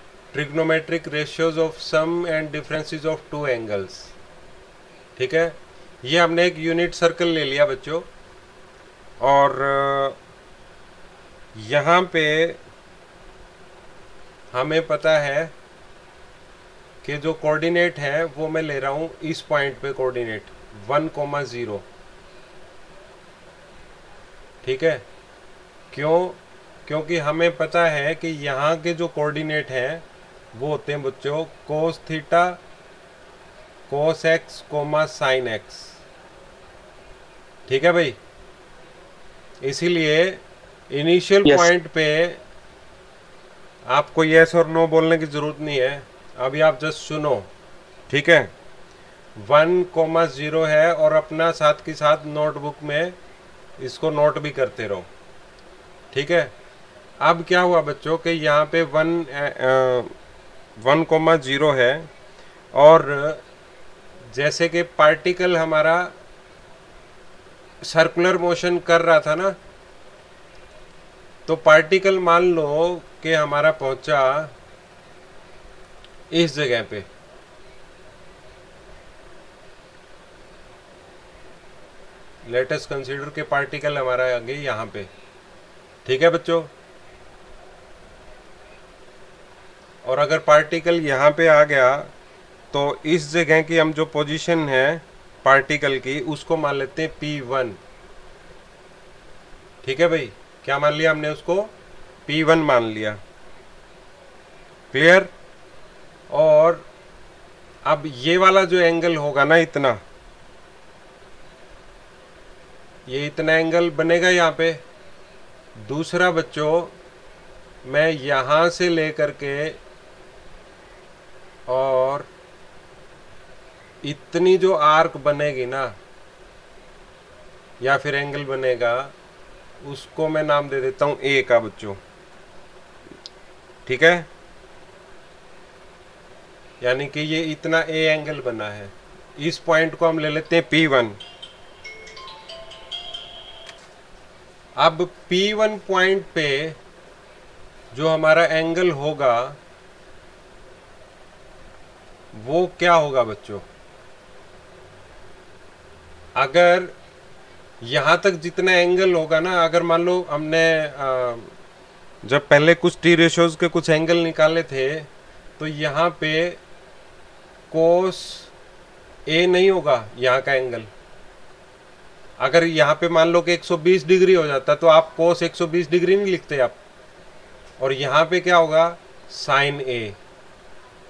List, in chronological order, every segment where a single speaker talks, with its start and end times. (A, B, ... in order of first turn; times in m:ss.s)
0:00.3-0:04.1 A
0:05.2-0:08.1 A
0:09.2-0:10.2 A
0:11.6-0:12.6 A
0:14.5-0:15.5 A
0:17.0-0:21.8 A
0:24.6-0:25.0 A
0:25.9-0:32.6 A
0:33.9-0:35.9 A
0:37.7-0:38.2 A
0:39.6-0:42.4 A
0:43.9-0:47.5 A
0:48.1-0:48.5 A
0:49.4-0:53.2 A
0:53.8-0:55.1 A
0:56.1-0:56.5 A
0:57.2-1:00.1 A
1:00.8-1:02.1 A
1:02.8-1:03.4 A
1:04.3-1:06.1 A
1:07.8-1:09.6 A
1:11.5-1:14.5 A
1:16.3-1:17.1 A
1:22.5-1:25.1 A
1:26.0-1:26.7 A
1:30.0-1:32.1 A
1:32.7-1:37.8 A
1:39.8-1:41.7 A
1:42.3-1:43.2 A
1:44.9-1:45.3 A
1:46.3-1:46.9 A
1:47.9-1:50.0 A
1:53.1-1:54.8 A
1:55.8-1:57.0 A
1:57.8-1:59.8 A
2:01.7-2:02.3 A
2:04.0-2:05.9 A
2:07.8-2:09.1 A
2:09.8-2:12.0 A
2:13.9-2:14.3 A
2:16.8-2:21.2 A
2:24.8-2:26.8 A
2:27.9-2:29.6 A
2:32.3-2:33.6 A
2:36.4-2:36.9 A
2:37.8-2:41.5 A
2:42.2-2:45.1 A
2:45.6-2:46.6 A
2:47.7-2:48.5 A
2:49.3-2:50.9 A
2:52.4-2:56.8 A
2:57.8-3:00.2 A